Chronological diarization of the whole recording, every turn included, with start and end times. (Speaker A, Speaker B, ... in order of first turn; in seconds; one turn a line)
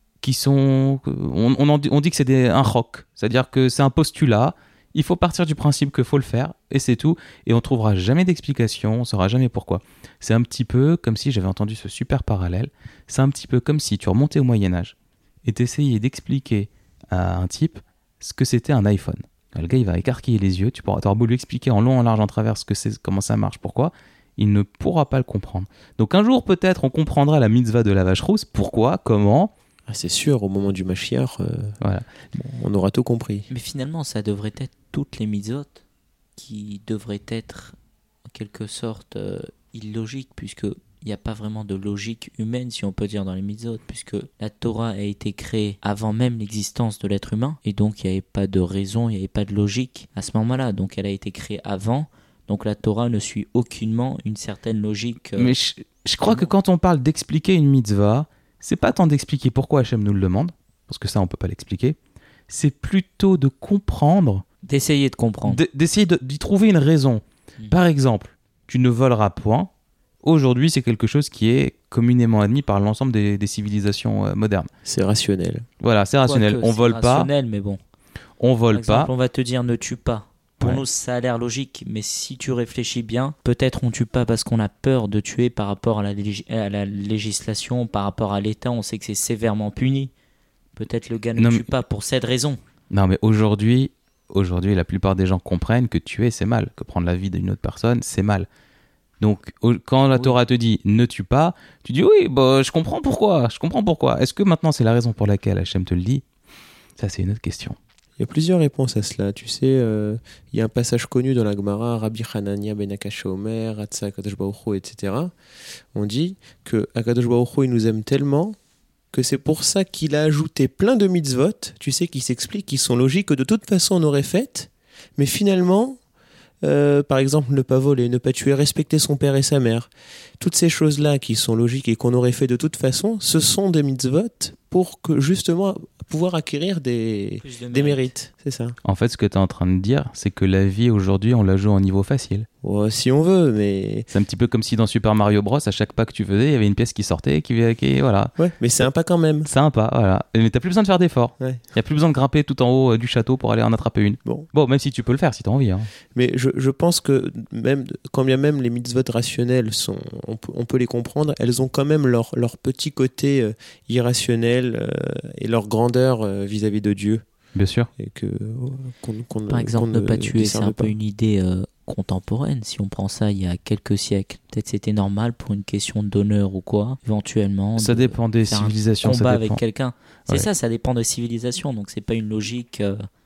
Speaker A: 0.2-29.5
Speaker B: 29.9-31.8
Speaker A: 31.8-32.4
Speaker B: 32.5-33.5
Speaker C: 33.5-35.8
Speaker C: 36.4-55.5
Speaker A: 55.4-62.0
Speaker C: 56.2-56.5
Speaker A: 62.5-64.4
Speaker C: 64.6-65.6
Speaker A: 65.5-69.7
Speaker A: 70.2-74.7
Speaker B: 74.8-75.7
Speaker A: 75.8-77.3
Speaker C: 76.2-77.8
Speaker A: 78.4-79.1
Speaker C: 78.7-90.1
Speaker A: 80.6-80.9
Speaker C: 90.8-92.6
Speaker A: 91.4-91.7
Speaker A: 92.9-98.5
Speaker A: 99.2-106.2
Speaker A: 107.0-107.8
Speaker B: 108.2-115.3
Speaker B: 115.9-118.6
Speaker B: 119.1-126.0
Speaker B: 126.6-138.8
Speaker C: 137.4-138.1
Speaker A: 138.8-142.5
Speaker B: 142.6-144.1
Speaker A: 144.1-148.3
Speaker B: 148.4-149.5
Speaker A: 149.4-155.9
Speaker B: 156.1-167.2
Speaker A: 167.6-167.9
Speaker B: 168.0-170.9
Speaker C: 169.5-183.1
Speaker A: 177.8-179.6